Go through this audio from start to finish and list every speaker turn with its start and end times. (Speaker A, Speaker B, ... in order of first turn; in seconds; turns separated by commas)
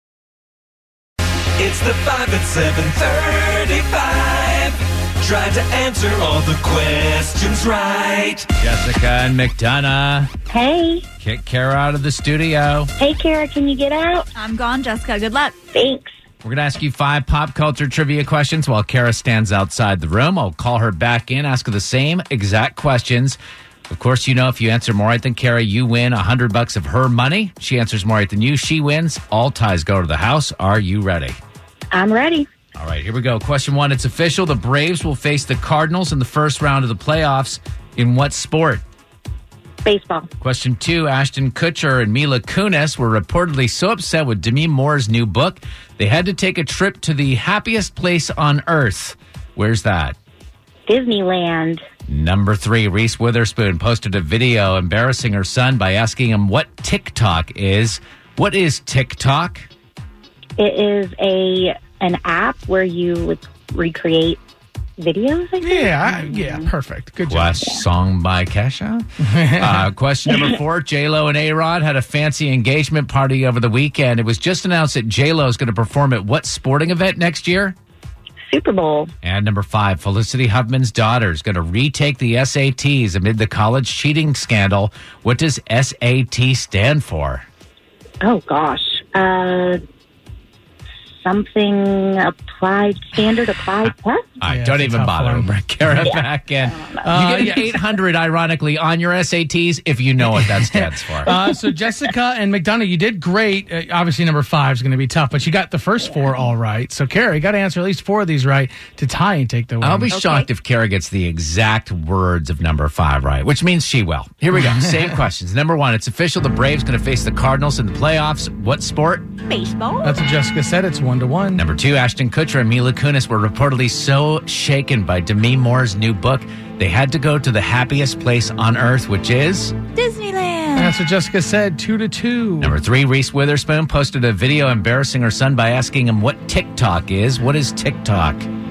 Speaker A: 1.6-8.5, Speaker B: 8.5-10.3, Speaker C: 10.5-11.0, Speaker B: 11.2-12.9, Speaker C: 13.0-14.3, Speaker D: 14.3-15.6, Speaker C: 15.7-16.1, Speaker B: 16.4-31.4, Speaker C: 31.9-32.5, Speaker B: 32.7-38.8, Speaker C: 39.8-40.3, Speaker B: 40.4-50.1, Speaker C: 50.9-51.8, Speaker B: 52.1-59.7, Speaker C: 60.6-64.4, Speaker C: 65.0-66.7, Speaker E: 65.6-67.7, Speaker B: 67.3-77.8, Speaker E: 69.3-69.8, Speaker C: 78.5-79.1, Speaker B: 79.2-87.4, Speaker C: 88.2-89.8, Speaker C: 91.2-94.3, Speaker B: 94.4-101.3, Speaker E: 94.4-96.1, Speaker C: 96.0-97.0, Speaker E: 97.0-97.7, Speaker E: 100.2-110.1, Speaker B: 109.8-119.3, Speaker D: 110.1-110.5, Speaker E: 114.5-115.1, Speaker D: 119.5-120.2, Speaker E: 120.0-121.6, Speaker B: 121.6-129.8, Speaker D: 129.9-130.9, Speaker E: 130.8-132.8, Speaker B: 132.6-138.5